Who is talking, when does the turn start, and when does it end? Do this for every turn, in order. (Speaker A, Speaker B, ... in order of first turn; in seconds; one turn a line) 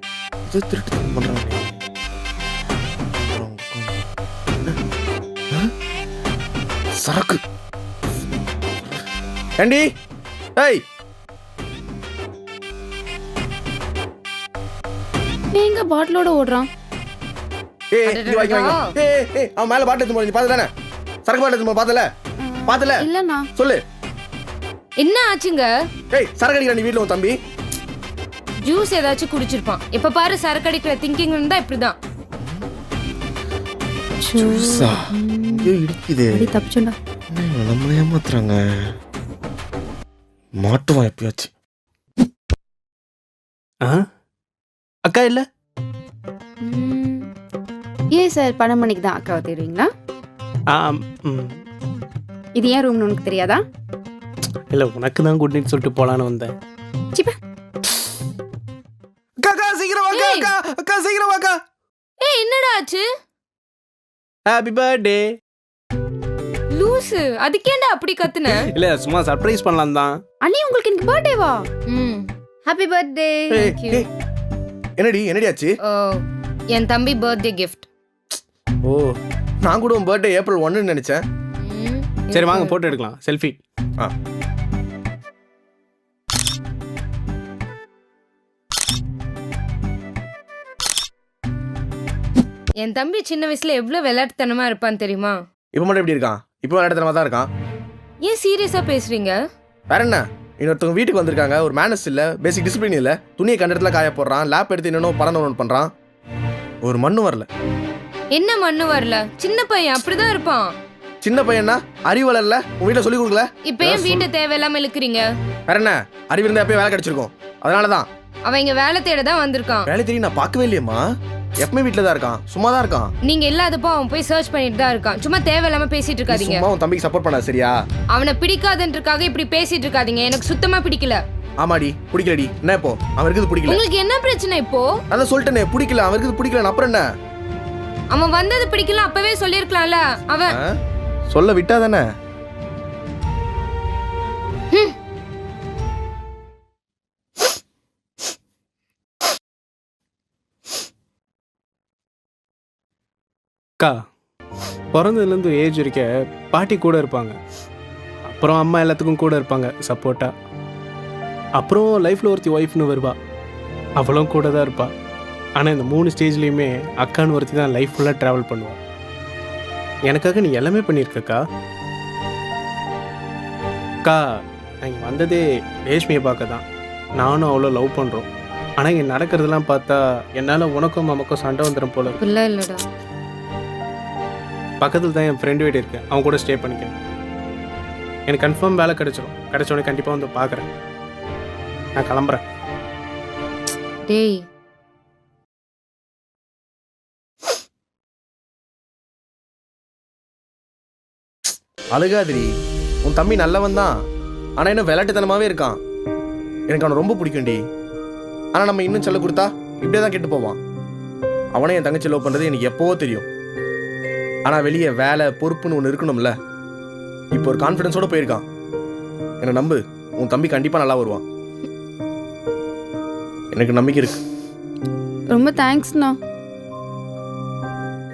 Speaker A: 0.5-1.8
Speaker A: 3.2-4.0
Speaker A: 7.0-7.4
Speaker A: 9.6-9.8
Speaker B: 15.5-16.7
Speaker A: 17.9-20.7
Speaker C: 18.0-18.9
Speaker A: 21.2-22.1
Speaker B: 22.4-23.5
Speaker A: 22.7-23.0
Speaker A: 23.6-23.8
Speaker C: 25.0-25.7
Speaker A: 26.1-27.3
Speaker C: 28.6-31.9
Speaker B: 34.2-35.7
Speaker A: 34.4-36.5
Speaker B: 36.3-36.9
Speaker A: 37.3-38.6
Speaker A: 40.6-41.5
Speaker D: 45.0-45.4
Speaker B: 46.6-47.2
Speaker B: 48.1-49.9
Speaker D: 50.7-51.6
Speaker B: 52.6-53.6
Speaker D: 54.7-56.5
Speaker A: 59.4-61.5
Speaker C: 60.1-60.5
Speaker C: 62.2-63.0
Speaker D: 64.5-65.3
Speaker C: 66.7-68.7
Speaker D: 68.6-70.2
Speaker B: 70.4-71.6
Speaker C: 71.9-74.0
Speaker A: 73.5-74.1
Speaker A: 75.0-75.7
Speaker C: 75.8-76.2
Speaker C: 76.7-77.8
Speaker A: 79.6-81.2
Speaker C: 81.6-82.8
Speaker D: 82.3-83.6
Speaker C: 92.8-95.4
Speaker A: 95.7-97.5
Speaker C: 98.2-99.3
Speaker A: 99.9-105.9
Speaker A: 106.8-107.5
Speaker C: 108.3-110.7
Speaker A: 111.2-114.3
Speaker C: 113.7-115.2
Speaker A: 115.7-118.1
Speaker C: 118.5-119.9
Speaker A: 119.8-121.0
Speaker A: 121.6-123.1
Speaker C: 123.2-126.7
Speaker A: 126.3-127.7
Speaker C: 128.1-131.2
Speaker A: 131.6-133.8
Speaker C: 133.7-134.9
Speaker A: 135.1-137.0
Speaker C: 138.1-140.6
Speaker A: 140.5-140.7
Speaker A: 141.3-142.0
Speaker D: 154.9-157.3
Speaker D: 158.3-160.3
Speaker D: 161.6-163.2
Speaker D: 164.0-164.9
Speaker D: 165.6-168.8
Speaker D: 170.1-171.4
Speaker D: 174.8-176.6
Speaker D: 177.2-178.2
Speaker D: 178.8-182.2
Speaker C: 182.2-182.8
Speaker D: 184.8-186.9
Speaker D: 188.3-190.7
Speaker D: 191.9-192.4
Speaker C: 194.1-194.4
Speaker A: 201.9-202.5
Speaker A: 203.0-203.9
Speaker A: 204.6-205.8
Speaker A: 206.7-207.6
Speaker A: 208.5-210.6
Speaker A: 211.5-213.3
Speaker A: 214.4-216.3
Speaker A: 217.3-218.4
Speaker A: 219.4-221.2
Speaker A: 223.5-224.2
Speaker B: 225.3-226.2